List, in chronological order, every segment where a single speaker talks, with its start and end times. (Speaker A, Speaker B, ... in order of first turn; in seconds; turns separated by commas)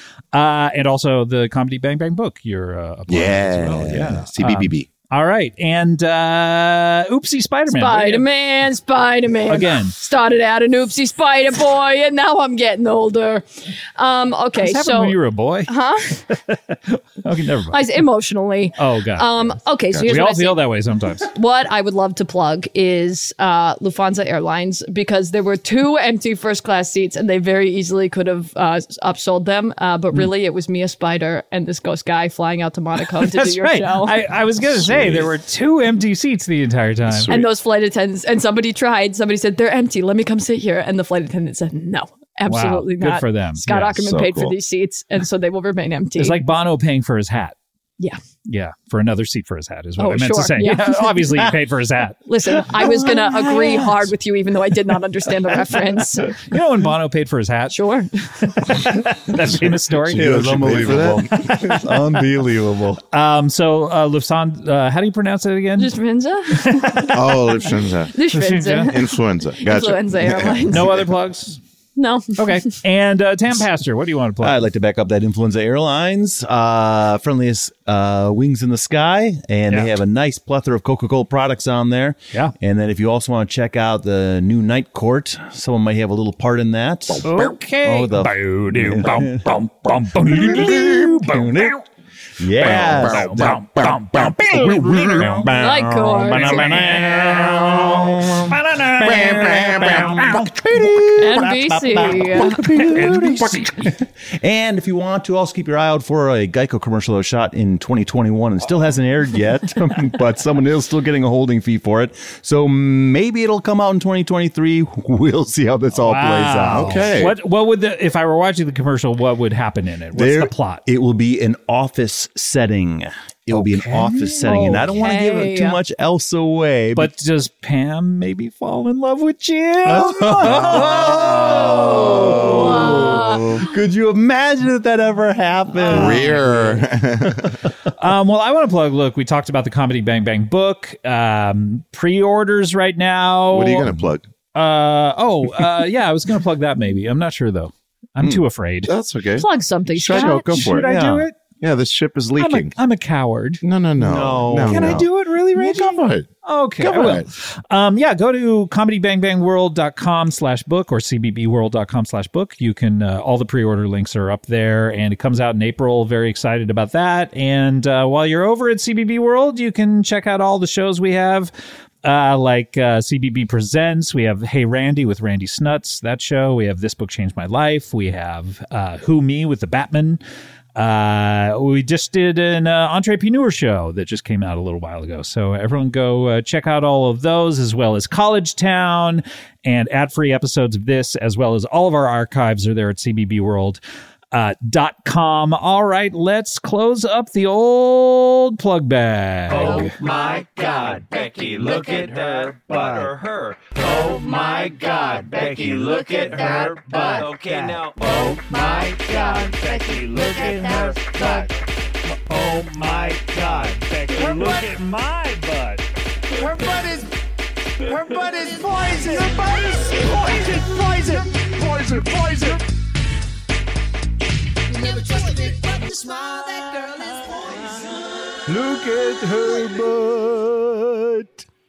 Speaker A: 0.3-8.3, Speaker B: 3.1-4.9, Speaker C: 7.7-16.2, Speaker A: 9.5-9.9, Speaker A: 14.6-15.7, Speaker A: 16.3-17.8, Speaker C: 17.7-34.2, Speaker A: 18.8-19.3, Speaker B: 19.9-20.2, Speaker A: 20.0-21.3, Speaker A: 33.1-37.3, Speaker B: 34.6-35.3, Speaker B: 37.0-37.5, Speaker C: 37.3-46.4, Speaker A: 42.5-44.0, Speaker B: 44.0-44.6, Speaker A: 46.2-47.6, Speaker A: 48.5-53.9, Speaker C: 50.0-51.5, Speaker C: 52.3-56.4, Speaker A: 56.3-57.8, Speaker C: 57.7-58.1, Speaker A: 58.4-60.6, Speaker D: 60.1-63.0, Speaker B: 60.1-61.9, Speaker A: 63.1-66.0, Speaker C: 65.8-67.1, Speaker A: 66.5-67.2, Speaker B: 67.1-68.1, Speaker C: 68.1-70.9, Speaker A: 68.3-69.0, Speaker B: 68.9-71.1, Speaker A: 70.7-71.6, Speaker C: 72.0-72.6, Speaker A: 72.4-74.7, Speaker D: 74.4-89.6, Speaker A: 87.2-91.8, Speaker D: 90.1-91.8, Speaker D: 92.4-93.6, Speaker A: 92.6-95.5, Speaker B: 92.8-93.6, Speaker D: 94.3-117.2, Speaker C: 95.4-97.0, Speaker A: 96.3-100.9, Speaker C: 101.2-102.8, Speaker A: 102.5-103.9, Speaker A: 116.0-120.8, Speaker B: 116.7-117.4, Speaker D: 120.2-127.1, Speaker A: 123.5-124.8, Speaker C: 124.5-125.8, Speaker A: 127.0-132.0, Speaker D: 129.9-136.7, Speaker C: 130.8-133.7, Speaker B: 135.8-137.6, Speaker A: 135.8-136.4, Speaker A: 138.0-143.9, Speaker B: 143.5-144.3, Speaker A: 144.6-148.9, Speaker B: 148.9-150.9, Speaker C: 149.4-150.5, Speaker A: 150.1-151.4, Speaker D: 150.7-151.3, Speaker B: 151.6-152.8, Speaker A: 152.4-153.6, Speaker B: 153.6-157.3, Speaker D: 154.0-155.1, Speaker A: 154.6-171.5, Speaker A: 172.0-180.2, Speaker A: 180.8-193.8, Speaker A: 194.3-200.0, Speaker D: 199.6-199.9, Speaker E: 199.9-211.1, Speaker A: 203.8-211.5, Speaker A: 212.3-215.8, Speaker A: 218.7-221.3, Speaker D: 228.5-231.4